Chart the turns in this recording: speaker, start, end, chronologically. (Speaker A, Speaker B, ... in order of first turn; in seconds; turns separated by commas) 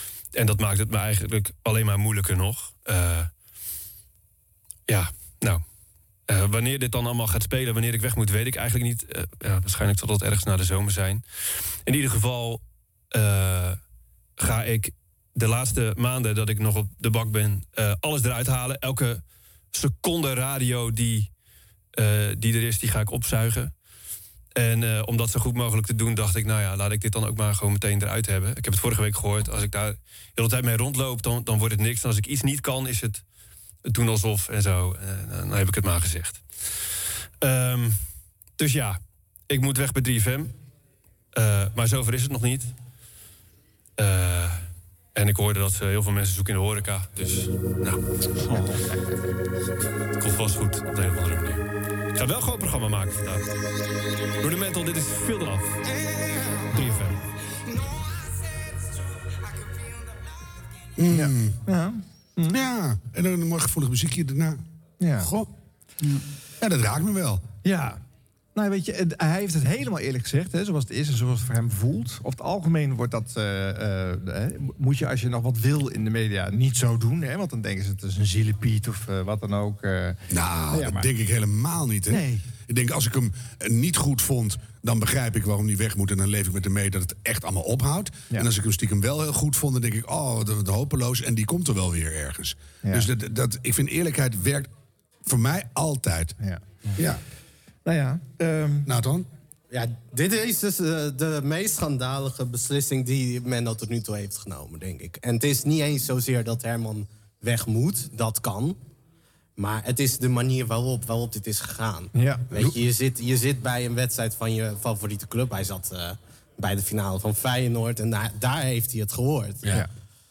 Speaker A: 0.3-3.3, Speaker A: 4.9-5.6, Speaker A: 6.3-11.2, Speaker A: 11.9-12.6, Speaker A: 13.1-13.8, Speaker A: 14.4-19.2, Speaker A: 19.7-21.3, Speaker A: 21.9-23.7, Speaker A: 24.6-33.2, Speaker A: 33.9-36.4, Speaker A: 37.4-38.0, Speaker A: 38.6-40.5, Speaker A: 41.3-42.7, Speaker A: 44.0-44.6, Speaker A: 45.1-48.0, Speaker A: 50.2-51.6, Speaker A: 52.1-53.5, Speaker A: 54.4-55.8, Speaker A: 56.7-57.2, Speaker B: 61.0-61.6, Speaker C: 61.1-62.6, Speaker B: 62.5-64.6, Speaker C: 65.0-65.3, Speaker B: 65.2-65.5, Speaker B: 66.6-67.4, Speaker C: 67.6-68.0, Speaker C: 68.5-80.2, Speaker B: 80.3-94.7, Speaker C: 80.7-81.1, Speaker C: 82.1-82.5, Speaker B: 95.3-96.4, Speaker C: 97.9-98.9, Speaker B: 98.9-99.3, Speaker D: 99.7-108.8, Speaker D: 109.6-119.7, Speaker C: 112.2-112.5